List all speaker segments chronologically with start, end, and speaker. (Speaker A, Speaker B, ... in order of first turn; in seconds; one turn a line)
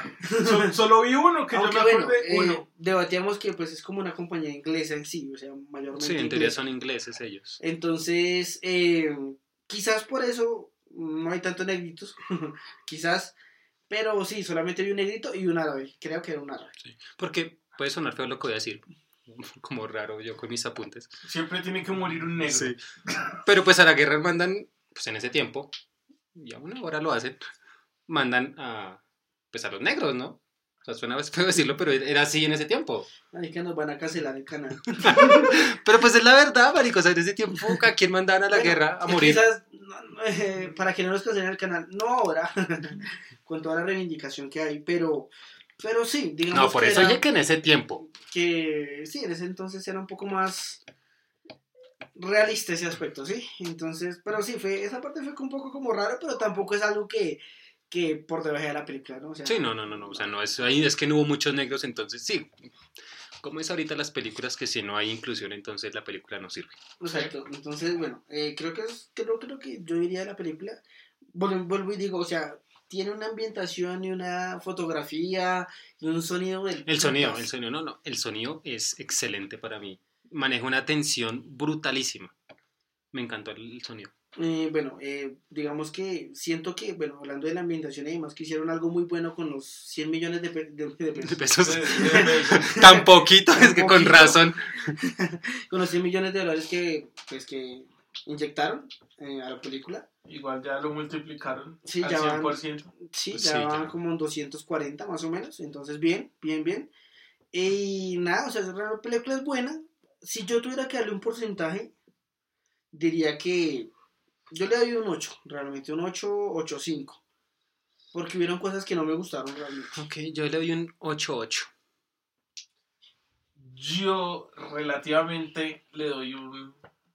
Speaker A: 0.2-0.7
Speaker B: 0.4-2.6
Speaker A: 1.5-6.6
Speaker C: 5.9-7.6
Speaker A: 7.6-13.3
Speaker A: 13.9-16.7
Speaker C: 17.1-21.1
Speaker B: 21.2-23.2
Speaker C: 22.5-22.8
Speaker C: 23.4-25.7
Speaker C: 26.3-27.4
Speaker C: 28.1-29.0
Speaker C: 29.5-33.1
Speaker A: 33.3-35.6
Speaker C: 35.0-39.4
Speaker A: 38.5-47.2
Speaker C: 46.5-48.0
Speaker A: 48.1-50.8
Speaker A: 52.1-60.2
Speaker C: 59.5-62.5
Speaker C: 63.4-67.3
Speaker A: 67.0-70.8
Speaker A: 71.3-77.5
Speaker C: 76.8-82.3
Speaker C: 83.1-84.1
Speaker A: 84.4-100.0
Speaker C: 91.2-94.9
Speaker B: 91.6-92.8
Speaker B: 100.2-102.9
Speaker A: 101.8-106.9
Speaker C: 103.3-103.9
Speaker A: 107.5-111.9
Speaker A: 112.9-113.9
Speaker A: 114.5-117.2
Speaker A: 118.1-120.0
Speaker C: 119.9-121.7
Speaker B: 123.5-126.8